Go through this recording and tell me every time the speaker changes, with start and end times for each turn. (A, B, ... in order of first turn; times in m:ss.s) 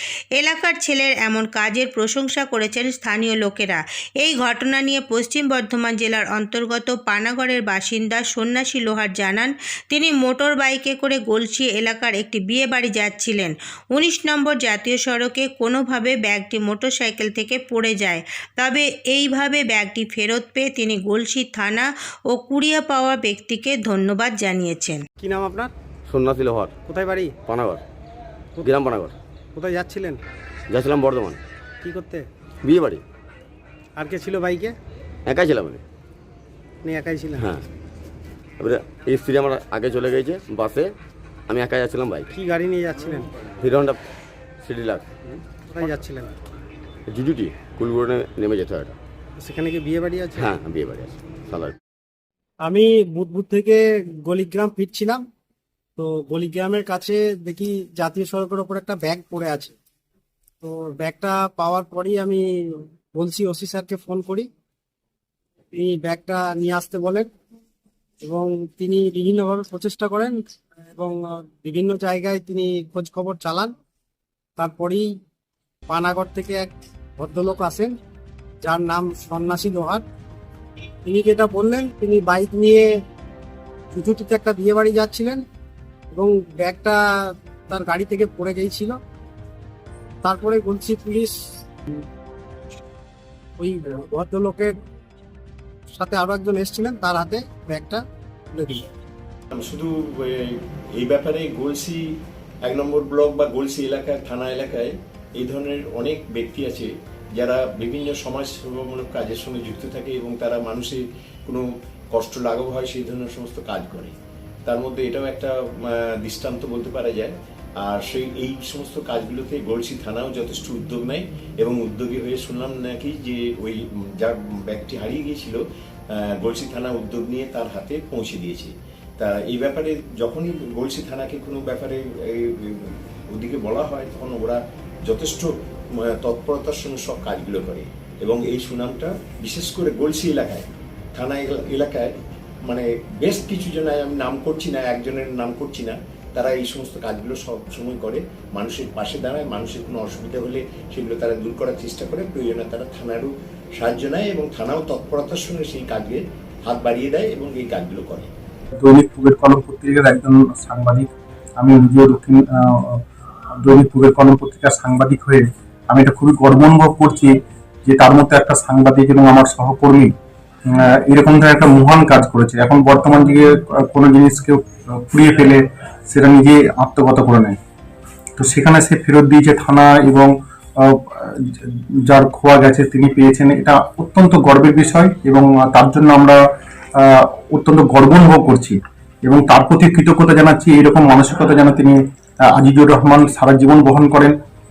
0:00.3-0:25.0 A
0:25.2-0:25.7 B
0:26.1-0:26.7 C
0:26.8-0:27.4 B
0:27.5-0:27.8 C
0:28.6-0:29.2 C
0:29.5-0:30.2 B
0:30.7-0:31.4 C
0:31.8-0:32.3 B
0:32.6-0:33.0 C
0:34.0-0:34.8 B
0:35.2-0:35.8 C
0:36.8-0:37.5 B
0:37.4-0:37.6 C
0:38.6-0:40.9 C
0:41.5-0:42.3 C
0:42.3-0:43.3 B
0:43.6-0:44.0 C
0:44.6-0:45.0 C
0:45.7-0:46.3 B
0:47.1-0:49.0 C
0:49.4-0:50.4 B
0:50.3-0:51.8 C
0:52.6-0:55.2 B
0:56.0-0:59.7 B
1:00.6-1:04.5 B
1:05.7-1:07.3 B
1:08.2-1:13.7 B
1:14.6-1:15.1 B
1:15.9-1:18.0 B
1:18.6-1:20.0 B
1:21.0-1:22.9 B
1:23.9-1:25.4 B
1:26.1-1:29.0 B
1:30.2-1:31.6 B
1:33.6-1:34.8 B
1:35.9-1:38.9 B
1:39.5-1:42.0 D
1:42.6-2:05.6 D
2:06.1-2:15.5 D
2:16.0-2:22.1 D
2:22.6-2:38.3 D
2:38.8-2:41.1 E
2:41.6-2:43.0 E
2:43.6-2:47.3 E
2:47.8-2:50.1 E
2:50.7-2:57.6 E
2:58.4-3:06.4 E
3:07.0-3:14.3 E